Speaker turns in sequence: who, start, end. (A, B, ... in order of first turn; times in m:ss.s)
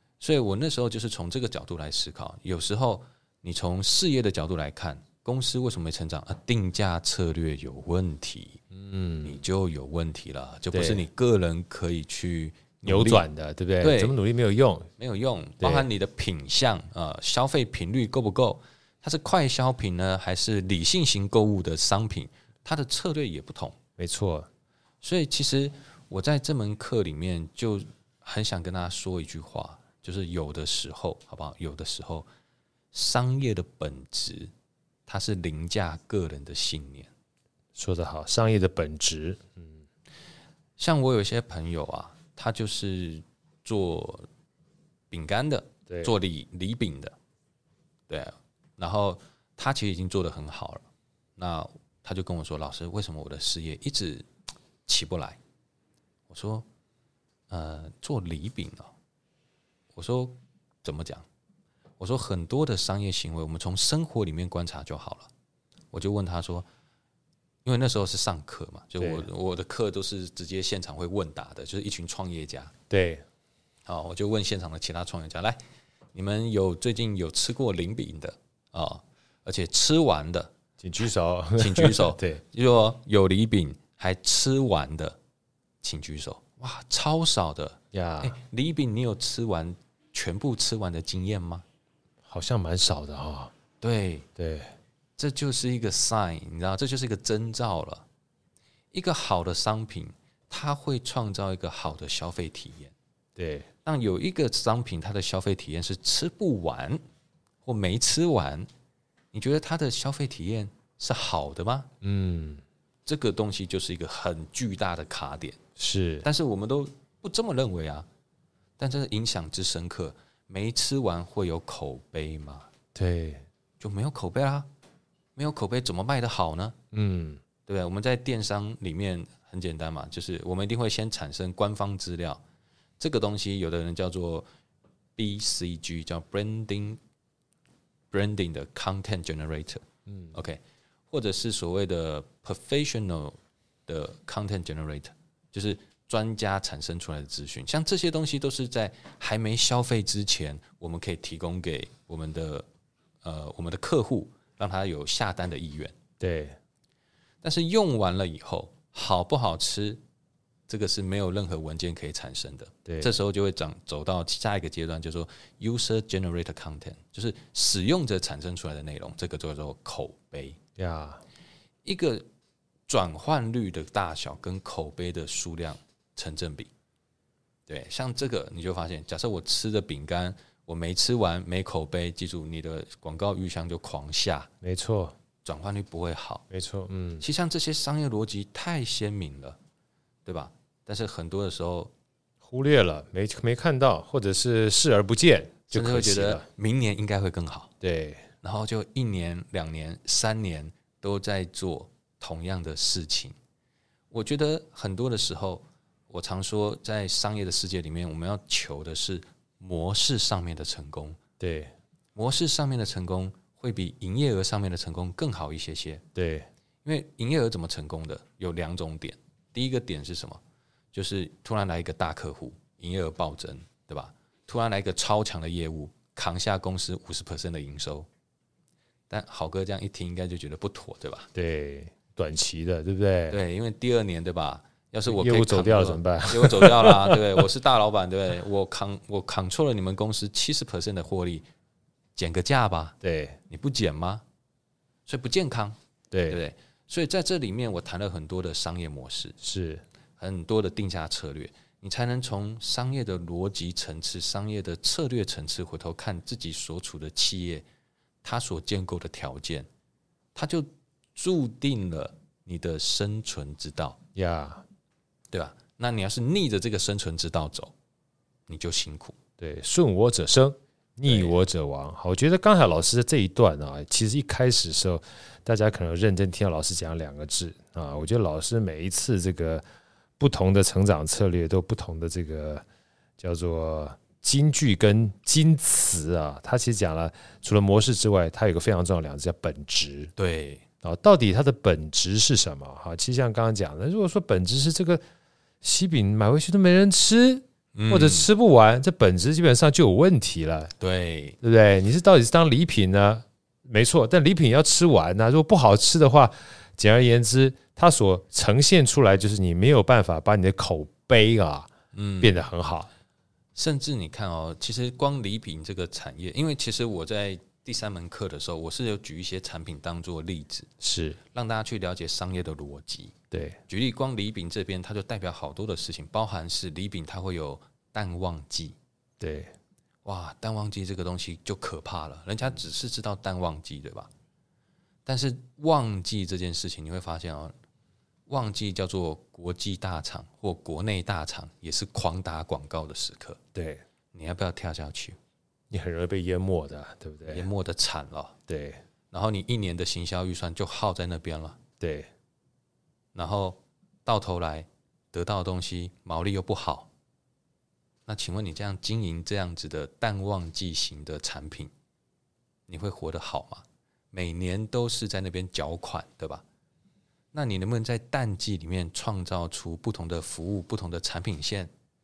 0:00.2-0:08.6 A
0:08.7-0:09.4 B
0:09.2-0:13.2 A
0:10.7-0:11.0 B
0:12.8-0:14.9 B
0:13.8-0:14.2 A
0:15.0-0:23.8 A
0:15.6-0:15.9 B
0:24.0-0:24.5 B
0:25.0-0:32.3 A
0:32.9-0:34.5 A
0:35.1-0:37.1 A
0:37.8-0:39.8 B
0:40.8-0:44.3 A
0:45.1-0:47.1 A
0:48.1-0:50.8 A
0:51.4-0:54.3 A
0:54.9-0:55.4 A
0:56.3-0:56.6 A
0:57.5-0:58.9 A
0:59.9-1:01.2 A
1:02.0-1:05.3 A
1:05.9-1:06.7 A
1:07.6-1:12.7 A
1:09.0-1:09.3 B
1:12.9-1:13.2 B
1:13.9-1:15.6 A
1:16.1-1:20.5 A
1:20.8-1:22.4 B
1:21.6-1:25.2 A
1:25.8-1:31.6 A
1:27.9-1:28.4 B
1:32.2-1:33.5 B
1:33.8-1:34.3 A
1:34.4-1:34.7 B
1:35.2-1:38.0 A
1:38.9-1:42.9 A
1:43.4-1:43.7 B
1:43.8-1:47.0 A
1:47.6-1:48.7 A
1:49.3-1:51.9 A
1:52.0-1:52.6 B
1:53.0-1:55.6 A
1:55.8-1:56.2 B
1:56.2-1:58.0 A
1:58.8-2:02.7 A
2:02.9-2:03.4 B
2:03.8-2:04.7 A
2:05.4-2:06.8 A
2:06.9-2:07.4 B
2:07.7-2:12.4 A
2:13.0-2:14.4 A
2:15.2-2:17.0 A
2:18.1-2:32.7 A
2:20.1-2:20.3 B
2:33.2-2:35.9 A
2:36.2-2:36.6 B
2:37.4-2:40.0 A
2:40.7-2:50.6 A
2:42.9-2:43.1 B
2:50.8-2:51.2 B
2:51.8-2:52.2 A
2:52.9-2:56.7 A
2:57.7-3:04.5 A
3:04.6-3:05.1 B
3:05.4-3:06.4 A
3:06.5-3:07.2 B
3:07.2-3:09.6 A
3:10.2-3:11.9 A
3:12.4-3:16.5 B
3:15.7-3:17.7 A
3:17.8-3:18.2 B
3:18.4-3:23.4 A
3:24.1-3:31.2 A
3:31.4-3:31.7 B
3:32.1-3:36.0 A
3:36.2-3:36.5 B
3:36.8-3:40.4 A
3:40.9-3:48.1 A
3:49.1-3:51.3 A
3:51.3-3:53.4 B
3:53.3-4:01.4 A
3:55.1-3:57.4 B
4:02.2-4:03.0 A
4:03.0-4:03.4 B
4:03.5-4:04.2 A
4:05.1-4:05.8 A
4:06.1-4:06.4 B
4:06.3-4:09.4 A
4:09.4-4:09.8 B
4:10.2-4:17.6 A
4:18.2-4:19.7 A
4:20.3-4:24.0 A
4:24.2-4:24.6 B
4:25.3-4:27.7 A
4:28.5-4:29.2 A
4:29.4-4:39.6 B
4:31.0-4:31.3 A
4:40.2-4:42.6 B
4:43.2-4:50.1 B
4:50.2-4:50.6 A
4:50.8-4:55.0 B
4:55.6-5:00.7 B
4:57.7-4:58.3 A
5:00.8-5:01.4 A
5:01.4-5:11.7 B
5:11.9-5:12.5 A
5:12.2-5:12.9 B
5:13.5-5:20.7 A
5:20.8-5:21.2 B
5:21.3-5:23.1 A
5:23.3-5:23.6 B
5:23.7-5:28.8 A
5:29.2-5:29.5 B
5:30.0-5:34.1 A
5:35.0-5:37.5 A
5:38.3-5:43.4 A
5:43.5-5:43.8 B
5:44.1-5:45.2 A
5:45.7-5:47.5 B
5:47.2-5:48.4 A
5:48.5-5:48.8 B
5:49.1-5:51.6 A
5:51.8-5:52.1 B
5:53.1-5:56.9 A
5:58.1-6:01.7 A
6:02.7-6:06.4 A
6:07.3-6:11.7 A